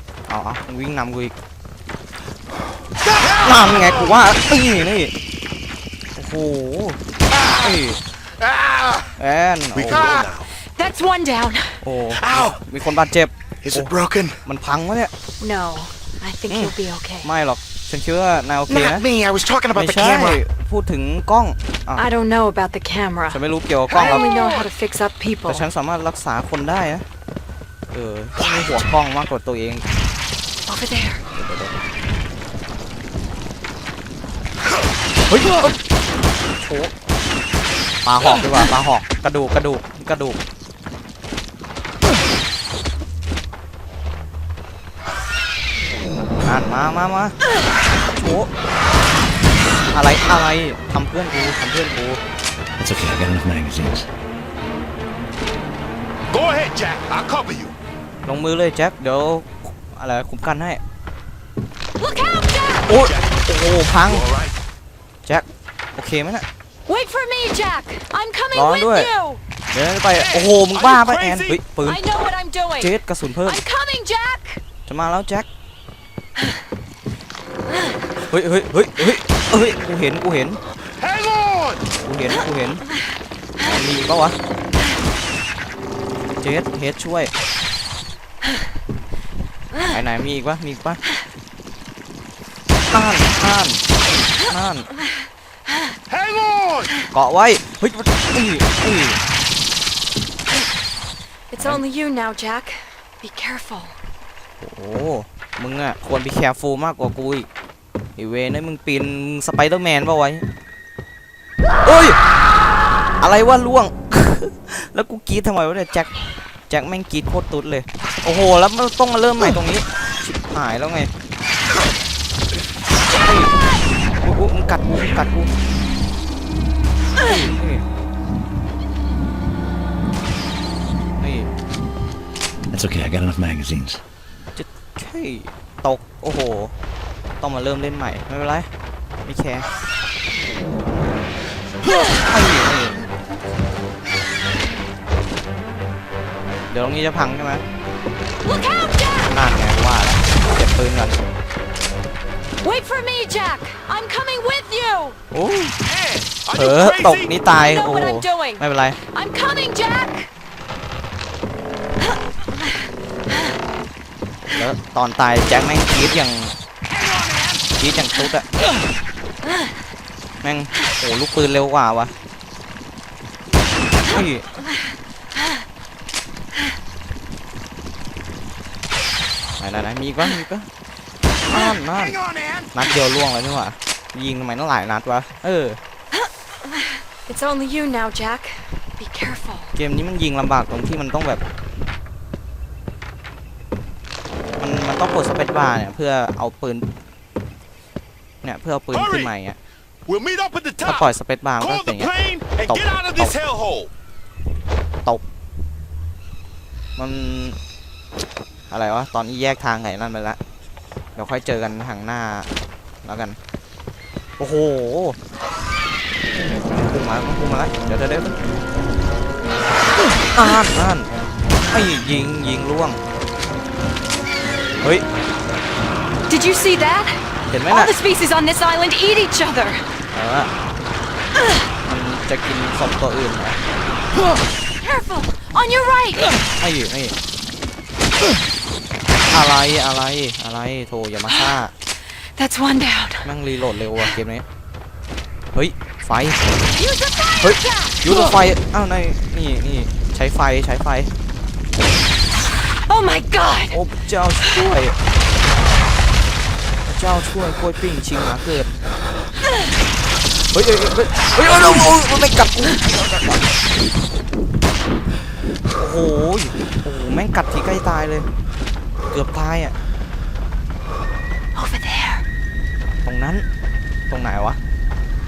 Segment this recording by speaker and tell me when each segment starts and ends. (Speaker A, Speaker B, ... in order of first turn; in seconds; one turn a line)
Speaker A: 0.3-1.3
Speaker B: 3.0-4.0
Speaker A: 3.4-5.1
Speaker A: 6.2-7.0
Speaker B: 7.3-7.8
Speaker A: 7.6-8.0
Speaker B: 8.4-9.1
Speaker A: 9.2-10.2
Speaker C: 9.7-10.5
Speaker B: 9.9-10.3
Speaker D: 10.7-11.8
Speaker A: 11.8-13.9
Speaker B: 12.1-12.6
Speaker B: 13.6-14.4
Speaker A: 14.4-15.1
Speaker D: 15.4-17.3
Speaker A: 16.5-19.1
Speaker B: 18.7-20.4
Speaker A: 19.7-22.1
Speaker D: 22.0-25.6
Speaker A: 23.3-24.3
Speaker B: 24.0-24.5
Speaker A: 25.5-27.0
Speaker A: 27.9-29.8
Speaker B: 28.4-28.8
Speaker D: 30.6-31.2
Speaker A: 31.3-31.7
Speaker A: 35.3-35.8
Speaker A: 36.6-36.9
Speaker A: 38.0-40.4
Speaker A: 46.4-47.3
Speaker A: 48.1-48.5
Speaker A: 49.9-52.2
Speaker E: 52.8-54.1
Speaker C: 56.3-57.7
Speaker A: 58.2-60.8
Speaker D: 62.0-62.8
Speaker A: 62.9-64.2
Speaker C: 62.9-64.5
Speaker A: 65.2-66.4
Speaker D: 66.9-69.4
Speaker A: 68.5-69.1
Speaker A: 69.7-72.0
Speaker C: 70.1-71.6
Speaker D: 71.8-74.6
Speaker A: 72.8-73.6
Speaker A: 74.8-75.5
Speaker A: 78.3-80.6
Speaker C: 81.0-81.9
Speaker A: 82.0-82.8
Speaker A: 83.6-84.4
Speaker A: 86.4-87.3
Speaker A: 89.8-91.0
Speaker A: 92.9-93.8
Speaker A: 94.4-94.9
Speaker C: 96.1-96.9
Speaker A: 97.1-99.2
Speaker D: 101.5-104.0
Speaker A: 104.6-107.5
Speaker A: 108.2-110.4
Speaker A: 111.8-112.2
Speaker A: 113.2-116.1
Speaker A: 116.7-121.1
Speaker A: 123.2-123.5
Speaker A: 124.2-125.5
Speaker A: 127.2-127.8
Speaker A: 131.2-131.5
Speaker E: 132.7-134.0
Speaker A: 134.5-136.7
Speaker A: 137.4-138.7
Speaker A: 139.2-139.7
Speaker A: 142.2-143.0
Speaker A: 146.7-147.6
Speaker D: 148.4-149.4
Speaker A: 149.3-151.2
Speaker D: 152.6-155.2
Speaker A: 155.3-155.8
Speaker C: 155.8-157.3
Speaker A: 156.5-159.0
Speaker D: 157.5-160.3
Speaker A: 164.4-166.6
Speaker A: 167.8-168.5
Speaker A: 170.4-172.1
Speaker A: 174.1-174.4
Speaker A: 179.6-180.7
Speaker A: 181.5-182.2
Speaker B: 181.5-182.8
Speaker A: 182.7-185.8
Speaker D: 186.1-189.7
Speaker A: 189.7-191.4
Speaker A: 194.6-196.9
Speaker A: 198.4-199.6
Speaker C: 198.9-199.3
Speaker C: 200.1-203.9
Speaker A: 200.8-202.1
Speaker A: 202.7-203.3
Speaker A: 207.0-207.6
Speaker A: 208.7-210.4
Speaker A: 211.2-212.5
Speaker A: 213.0-213.4
Speaker A: 214.4-215.2
Speaker A: 216.7-218.3
Speaker A: 220.3-221.1
Speaker A: 221.7-223.0
Speaker D: 226.3-229.8
Speaker A: 227.5-227.9
Speaker A: 230.1-230.5
Speaker A: 231.8-233.6
Speaker D: 234.7-236.3
Speaker A: 236.6-237.2
Speaker A: 239.3-241.7
Speaker D: 242.3-243.3
Speaker A: 243.2-244.4
Speaker A: 245.5-246.7
Speaker D: 246.7-248.2
Speaker A: 247.4-251.1
Speaker D: 252.7-253.8
Speaker A: 253.7-254.9
Speaker A: 256.9-258.7
Speaker A: 260.5-263.5
Speaker A: 265.8-268.3
Speaker A: 269.1-269.7
Speaker D: 271.5-272.2
Speaker A: 273.0-273.4
Speaker A: 274.1-274.6